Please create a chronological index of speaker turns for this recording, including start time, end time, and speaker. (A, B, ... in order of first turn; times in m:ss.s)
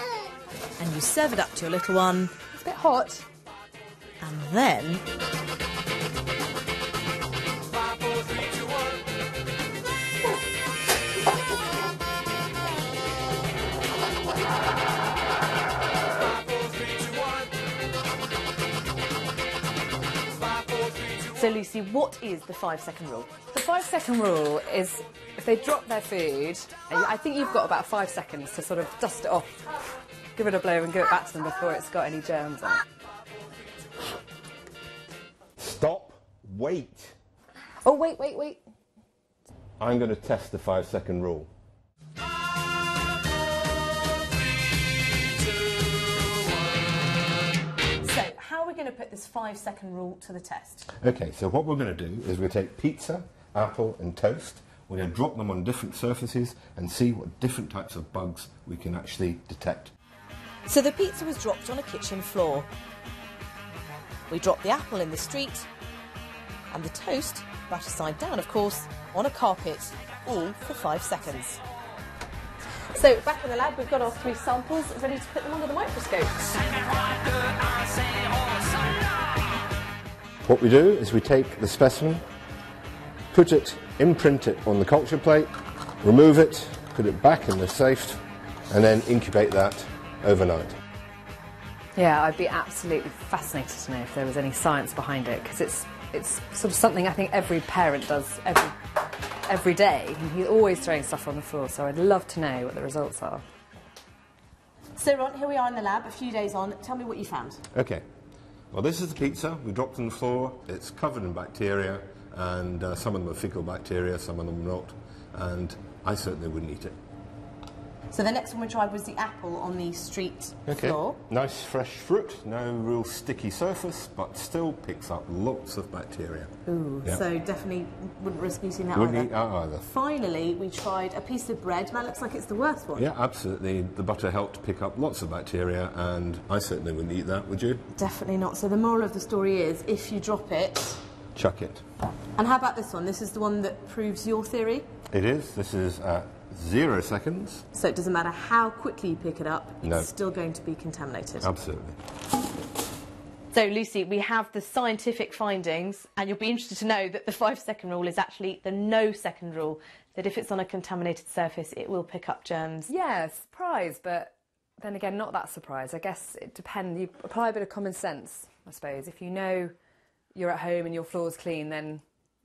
0:00.8-0:02.3 A
0:02.5-0:03.2 B
0:04.2-0:05.0 A
0:21.3-0:23.4 A
0:23.5-0:29.7 B
0:30.4-0:32.8 B
0:35.6-0:37.2 C
0:37.8-0:38.6 B
0:39.8-0:41.5 C
0:48.0-0:50.9 A
0:51.0-0:59.9 C
1:00.6-1:02.7 A
1:04.3-1:05.7 A
1:06.7-1:11.6 A
1:12.9-1:16.8 A
1:20.4-1:22.2 C
1:23.3-1:30.8 C
1:32.0-1:38.8 B
1:39.5-1:43.4 B
1:45.0-1:47.6 A
1:47.7-1:48.0 C
1:48.7-1:57.0 C
1:58.1-2:01.2 A
2:00.7-2:06.5 C
2:06.7-2:13.1 A
2:09.0-2:09.9 C
2:13.0-2:17.9 C
2:17.9-2:21.0 A
2:21.4-2:21.8 C
2:22.4-2:24.9 A
2:25.1-2:27.6 C
2:27.7-2:31.5 A
2:29.8-2:30.1 C
2:31.4-2:32.0 C
2:33.5-2:42.9 A
2:42.9-2:49.7 B
2:50.4-2:52.0 B